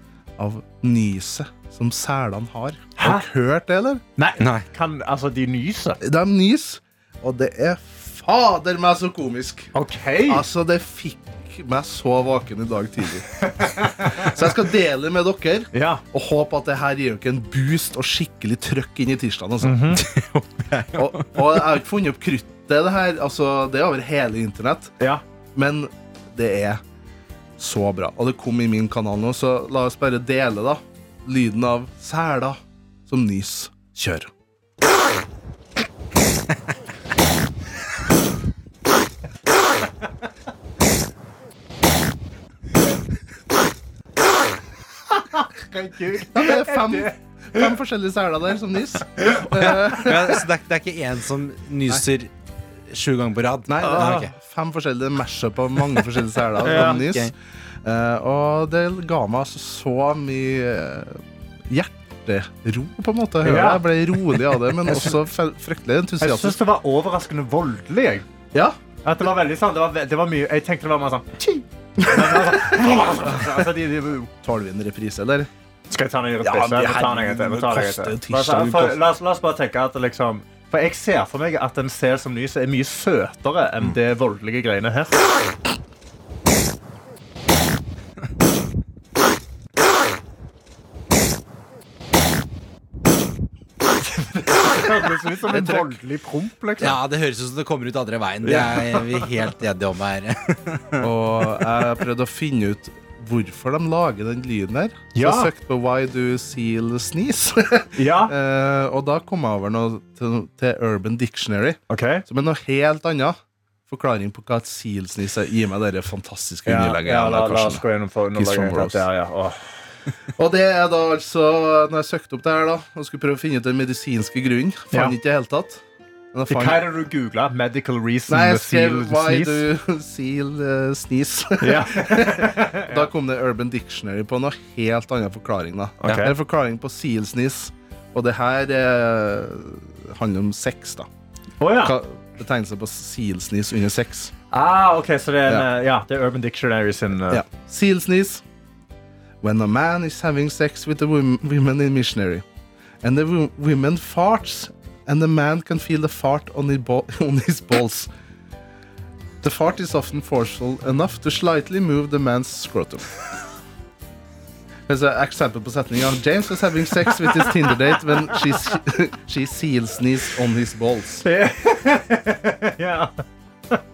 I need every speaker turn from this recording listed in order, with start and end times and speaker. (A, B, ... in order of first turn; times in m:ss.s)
0:00.4-0:04.0 A
0:03.0-0:03.3 B
0:04.2-0:06.0 B
0:06.0-0:09.7 A
0:09.7-0:10.4 B
0:10.3-0:13.4 A
0:13.4-0:14.3 B
0:14.1-0:19.8 A
0:15.7-0:16.0 B
0:19.6-0:20.0 B
0:19.9-0:21.5 C
0:21.0-0:24.9 A
0:25.5-0:26.8 A
0:27.6-0:34.3 A
0:45.1-0:47.1 B
0:46.3-0:50.4 A
0:49.6-0:52.3 C
0:52.9-0:54.3 C
0:53.7-0:57.3 A
0:53.8-0:54.2 B
0:56.6-0:57.0 B
0:56.6-0:57.3 C
0:57.8-1:06.6 A
1:03.4-1:03.8 B
1:04.8-1:05.2 B
1:06.2-1:08.2 B
1:09.0-1:14.3 B
1:12.0-1:13.6 A
1:14.4-1:15.5 A
1:15.9-1:25.2 B
1:16.4-1:19.0 A
1:34.2-1:37.0 B
1:35.5-1:35.9 A
1:36.8-1:41.1 C
1:38.4-1:39.3 B
1:41.0-1:57.8 A
1:45.1-1:45.5 B
1:48.0-1:48.3 B
1:51.9-1:52.2 B
1:56.6-1:59.6 B
1:58.4-1:59.0 A
2:00.4-2:05.8 A
2:06.3-2:06.8 A
2:06.5-2:09.6 B
2:08.3-2:21.1 A
2:11.6-2:13.1 B
2:16.0-2:16.3 B
2:21.6-2:22.0 B
2:21.8-2:24.3 A
2:24.5-2:27.4 B
2:27.3-2:28.4 A
2:29.4-2:32.4 A
2:33.0-2:38.1 A
2:39.4-2:43.1 A
2:44.9-2:51.2 A
2:48.3-2:48.7 B
2:51.2-2:53.2 B